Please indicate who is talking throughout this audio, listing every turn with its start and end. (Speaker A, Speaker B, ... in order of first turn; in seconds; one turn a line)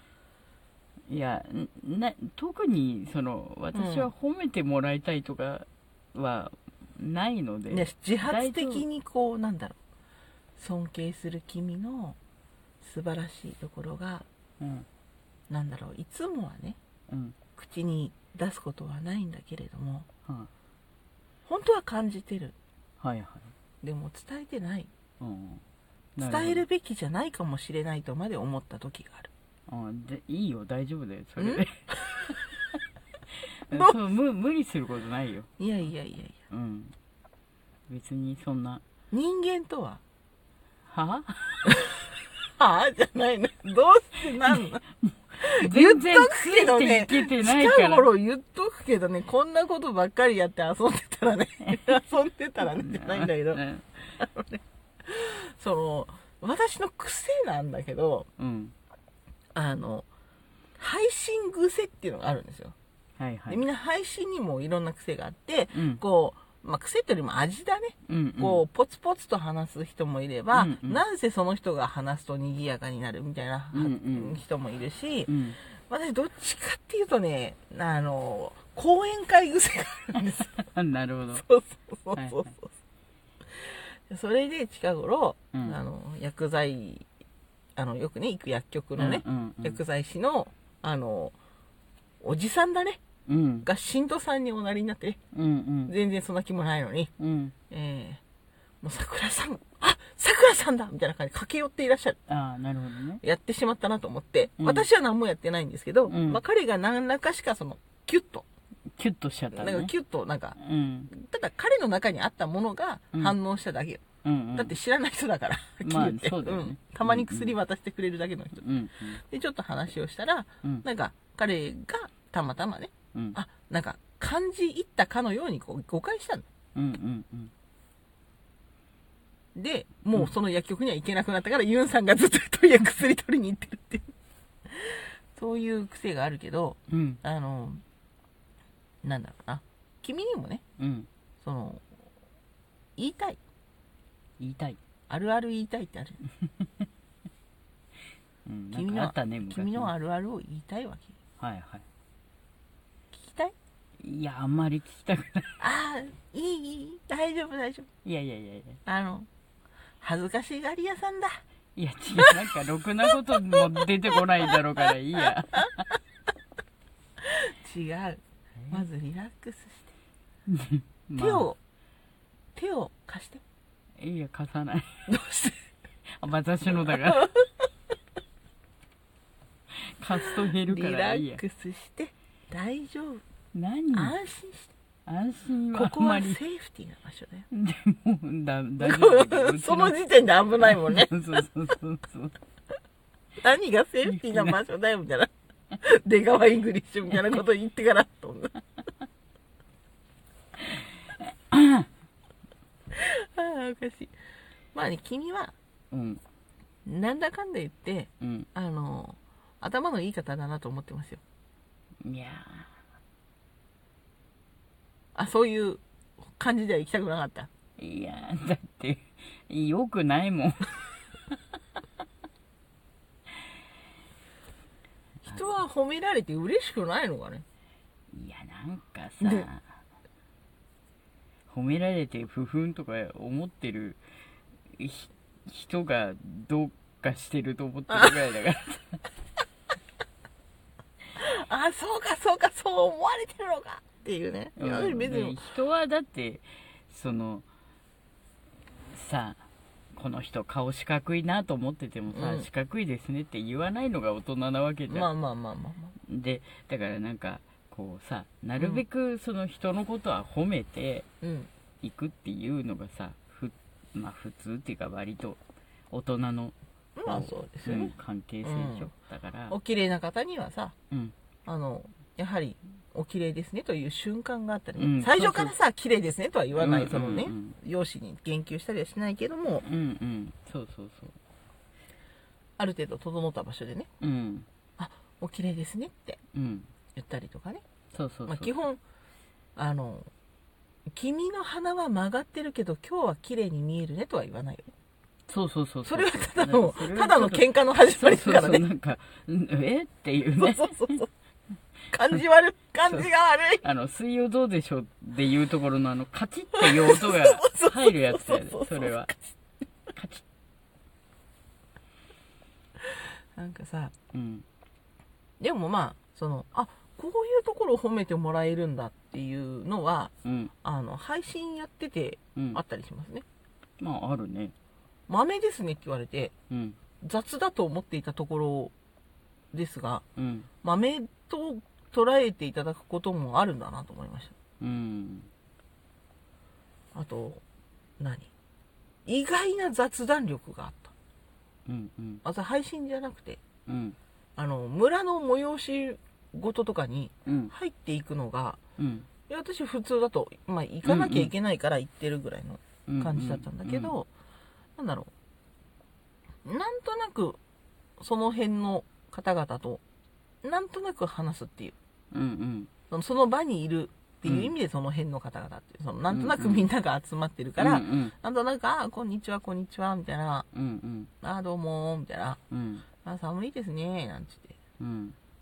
Speaker A: 1.1-8.8
Speaker B: 3.7-4.1
Speaker B: 7.7-9.8
Speaker B: 10.6-12.2
Speaker B: 12.8-14.3
Speaker A: 14.6-14.9
Speaker B: 15.5-16.8
Speaker A: 17.1-17.4
Speaker B: 17.6-20.1
Speaker B: 21.4-22.6
Speaker A: 23.0-23.5
Speaker B: 23.8-24.9
Speaker A: 25.2-25.6
Speaker A: 26.2-26.7
Speaker B: 26.2-29.3
Speaker A: 29.7-32.4
Speaker B: 31.4-31.6
Speaker A: 33.7-35.5
Speaker B: 35.6-36.4
Speaker A: 36.5-36.9
Speaker A: 37.9-38.8
Speaker B: 39.1-40.0
Speaker A: 40.9-41.7
Speaker B: 41.7-42.0
Speaker B: 42.6-44.8
Speaker A: 44.5-48.1
Speaker B: 45.4-53.6
Speaker A: 52.6-54.0
Speaker B: 54.2-58.3
Speaker A: 58.4-58.7
Speaker B: 59.5-60.1
Speaker B: 60.8-62.8
Speaker A: 63.2-63.6
Speaker B: 63.5-80.5
Speaker A: 65.7-66.0
Speaker A: 68.1-68.6
Speaker A: 70.5-71.0
Speaker A: 73.7-74.4
Speaker A: 75.3-75.6
Speaker A: 80.6-81.4
Speaker B: 81.3-82.7
Speaker A: 82.1-82.5
Speaker B: 83.5-87.0
Speaker A: 85.5-85.8
Speaker B: 87.8-91.3
Speaker A: 89.0-89.8
Speaker B: 92.2-93.0
Speaker A: 93.3-93.7
Speaker B: 93.6-95.2
Speaker A: 95.3-95.9
Speaker B: 95.9-97.1
Speaker A: 97.2-97.5
Speaker B: 97.7-98.2
Speaker B: 98.8-102.2
Speaker A: 102.3-103.2
Speaker B: 103.2-108.5
Speaker A: 104.6-104.9
Speaker A: 106.1-106.4
Speaker A: 109.0-109.9
Speaker B: 109.5-110.6
Speaker A: 110.6-111.1
Speaker B: 111.1-114.0
Speaker A: 114.2-114.8
Speaker B: 114.6-118.6
Speaker A: 115.8-117.5
Speaker A: 118.6-119.2
Speaker B: 119.2-126.5
Speaker A: 126.8-127.5
Speaker B: 129.6-134.1
Speaker B: 134.7-137.8
Speaker A: 136.9-137.2
Speaker B: 139.0-140.6
Speaker A: 140.8-141.1
Speaker B: 141.4-141.8
Speaker B: 143.0-143.4
Speaker A: 144.4-144.8
Speaker B: 145.1-146.2
Speaker A: 148.5-149.9
Speaker B: 148.7-151.2
Speaker A: 151.4-151.8
Speaker B: 153.1-153.5
Speaker A: 154.0-155.6
Speaker B: 155.6-157.9
Speaker A: 158.1-158.8
Speaker B: 158.9-159.3
Speaker B: 160.0-161.4
Speaker A: 161.8-165.8
Speaker B: 167.2-169.9
Speaker A: 170.5-171.5
Speaker B: 171.2-171.6
Speaker B: 172.6-173.4
Speaker A: 174.0-175.1
Speaker B: 175.1-175.6
Speaker A: 176.2-177.3
Speaker B: 176.8-177.4
Speaker A: 180.0-181.4
Speaker B: 180.2-183.2
Speaker A: 183.5-184.1
Speaker B: 183.9-184.7
Speaker A: 185.1-186.4
Speaker B: 185.7-187.5
Speaker A: 187.5-190.0
Speaker B: 188.8-191.4
Speaker A: 190.6-192.3
Speaker B: 193.4-195.3
Speaker A: 194.1-194.6
Speaker B: 195.8-198.6
Speaker A: 201.5-201.9
Speaker B: 202.9-204.1
Speaker B: 204.7-205.5
Speaker A: 205.9-206.2
Speaker B: 206.9-211.2
Speaker A: 208.2-208.5
Speaker A: 212.0-212.7
Speaker B: 215.2-217.5
Speaker A: 217.8-220.9
Speaker B: 225.2-227.4
Speaker A: 228.1-229.7
Speaker A: 231.5-234.0
Speaker A: 234.7-239.0
Speaker B: 241.2-245.4
Speaker A: 244.6-247.5
Speaker A: 248.9-255.1
Speaker B: 252.1-252.5
Speaker B: 254.9-255.9
Speaker A: 256.0-261.1
Speaker B: 258.6-258.8
Speaker B: 261.2-261.5
Speaker A: 261.8-265.4
Speaker A: 265.9-269.6
Speaker B: 267.0-267.9
Speaker B: 268.4-268.9
Speaker B: 269.5-270.7
Speaker B: 271.5-279.6
Speaker A: 274.8-275.5
Speaker A: 276.6-277.6
Speaker A: 279.6-281.1
Speaker B: 282.6-283.9
Speaker A: 284.0-284.5
Speaker B: 284.8-286.2
Speaker A: 286.3-286.7
Speaker B: 286.9-287.6
Speaker A: 287.9-288.5
Speaker B: 288.3-288.8
Speaker B: 289.6-290.1
Speaker B: 290.9-294.7
Speaker A: 295.3-301.0
Speaker B: 295.9-298.7
Speaker B: 300.4-301.1
Speaker B: 301.9-303.6
Speaker A: 302.9-303.1
Speaker A: 303.6-309.1
Speaker B: 306.6-309.3
Speaker A: 309.9-310.2
Speaker B: 313.4-313.9
Speaker A: 314.1-314.5
Speaker B: 315.4-323.2
Speaker A: 320.2-320.5
Speaker A: 323.8-324.5
Speaker B: 325.1-326.3
Speaker A: 326.5-326.8
Speaker B: 327.0-328.7
Speaker B: 329.5-330.0
Speaker A: 330.2-330.5
Speaker B: 330.6-334.4
Speaker A: 334.6-335.3
Speaker B: 336.9-337.4
Speaker B: 338.0-338.3
Speaker B: 339.1-340.9
Speaker A: 341.7-342.2
Speaker B: 342.2-343.4
Speaker A: 343.7-344.0
Speaker B: 344.4-348.6
Speaker A: 347.3-347.5
Speaker A: 348.8-349.1
Speaker B: 349.3-354.1
Speaker A: 350.9-351.3
Speaker A: 352.9-353.9
Speaker B: 354.8-355.1
Speaker B: 356.4-357.4
Speaker B: 358.0-359.8
Speaker B: 360.4-361.8
Speaker A: 362.1-362.7
Speaker B: 362.9-370.5
Speaker A: 364.2-364.5
Speaker A: 366.1-366.7
Speaker A: 367.6-368.1
Speaker A: 370.5-371.1
Speaker B: 371.2-372.4
Speaker A: 372.5-372.9
Speaker B: 373.0-374.6
Speaker A: 374.8-375.2